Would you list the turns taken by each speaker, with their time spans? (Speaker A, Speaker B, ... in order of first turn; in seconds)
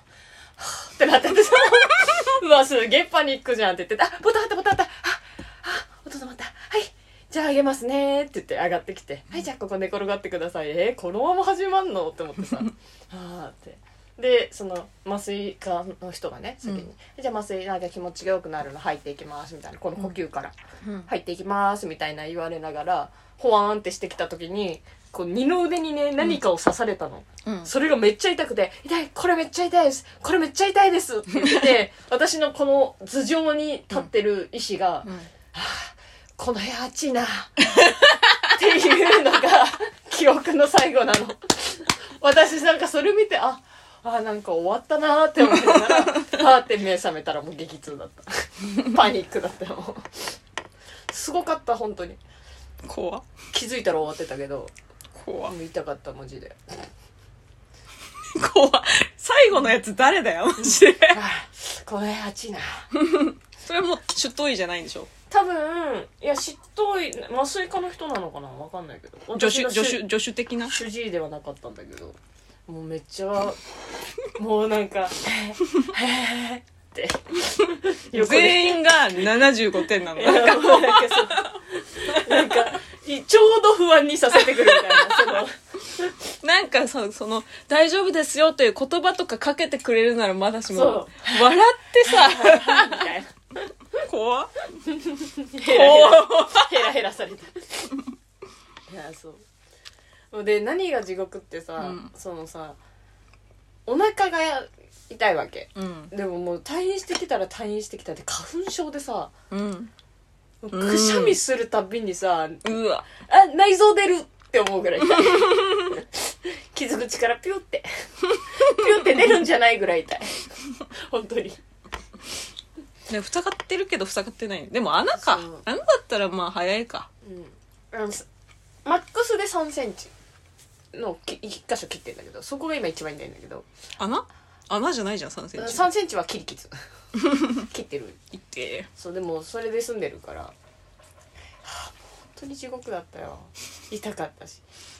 Speaker A: 0.6-20.5, 21.1-50.3, 51.1-52.2, 53.5-54.7, 55.5-56.6, 60.6-62.9, 65.3-70.0, 70.6-72.2, 72.7-73.6, 74.3-78.8, 80.1-86.1, 90.7-93.3, 94.9-97.9, 98.9-99.4, 100.3-102.8, 103.9-109.3, 110.6-121.6, 125.2-125.6, 127.2-128.3, 128.8-130.1, 130.9-133.7, 135.6-136.7, 137.5-138.2, 138.9-140.5, 141.6-144.6
Speaker B: 20.8-21.1, 27.4-27.7, 31.4-31.7, 35.0-35.3, 45.5-46.3, 52.8-53.2, 55.1-55.5, 58.3-61.2, 62.9-65.1, 69.3-70.7, 78.1-81.6, 82.1-82.7, 84.3-85.4, 86.4-93.1, 94.0-94.6, 95.6-96.9, 101.8-102.1, 105.8-106.1, 109.5-109.9, 110.7-111.4, 112.6-113.1, 115.1-116.0, 123.1-127.1, 134.0-135.9, 137.2-137.7, 138.3-138.9